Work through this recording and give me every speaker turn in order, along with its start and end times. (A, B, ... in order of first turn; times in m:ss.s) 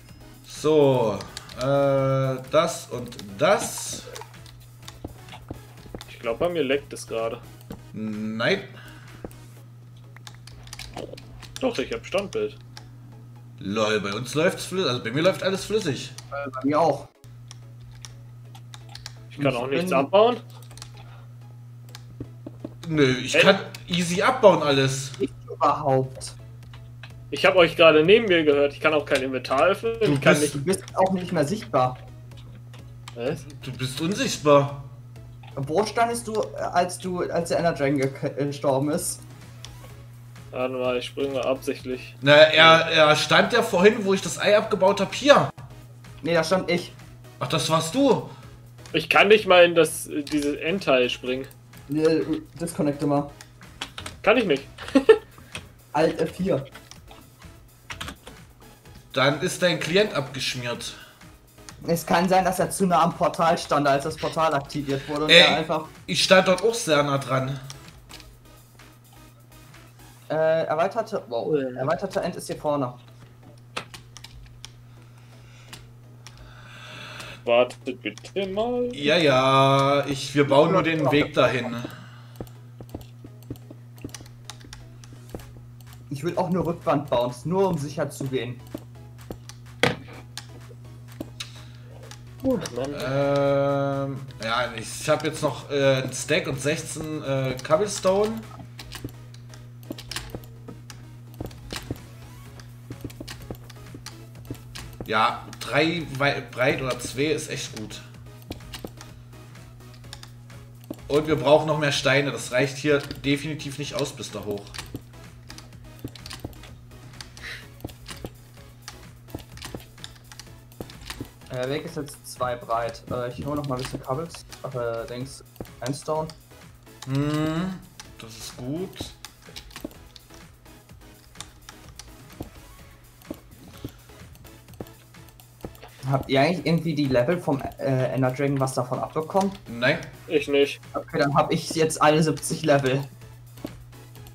0:00.4-0:04.1 A
0:06.1-0:07.4 B
0:07.9-0:08.7 A
0:11.6-0:12.6 B
0:13.6-0:16.2 A
0:16.3-0:17.1 C
0:19.3-0:20.4 B
0:19.4-0:20.1 C
0:22.8-0:25.2 A
0:25.2-0:26.4 C
0:27.3-0:30.6 B
0:30.0-0:32.0 C
0:33.2-0:33.4 B
0:33.5-0:34.9 A
0:35.6-0:39.2 C
0:40.5-0:42.8 B
0:42.2-0:45.5 A
0:46.2-0:47.0 C
0:47.4-0:48.3 A
0:48.9-0:51.5 B
0:51.9-0:53.3 C
0:54.2-0:55.2 B
0:55.9-0:56.7 C
0:59.1-1:01.0 A
1:01.8-1:05.9 C
1:05.3-1:07.6 A
1:10.3-1:13.0 C
1:11.5-1:11.9 B
1:17.4-1:19.0 B
1:18.9-1:21.9 A
1:20.5-1:21.4 C
1:26.1-1:28.6 C
1:32.4-1:33.1 B
1:32.9-1:38.5 A
1:45.0-1:48.1 A
1:51.1-1:54.8 A
2:01.5-2:06.4 C
2:07.1-2:09.1 A
2:16.0-2:19.6 C
2:19.7-2:20.1 A
2:20.3-2:20.8 B
2:20.9-2:23.1 C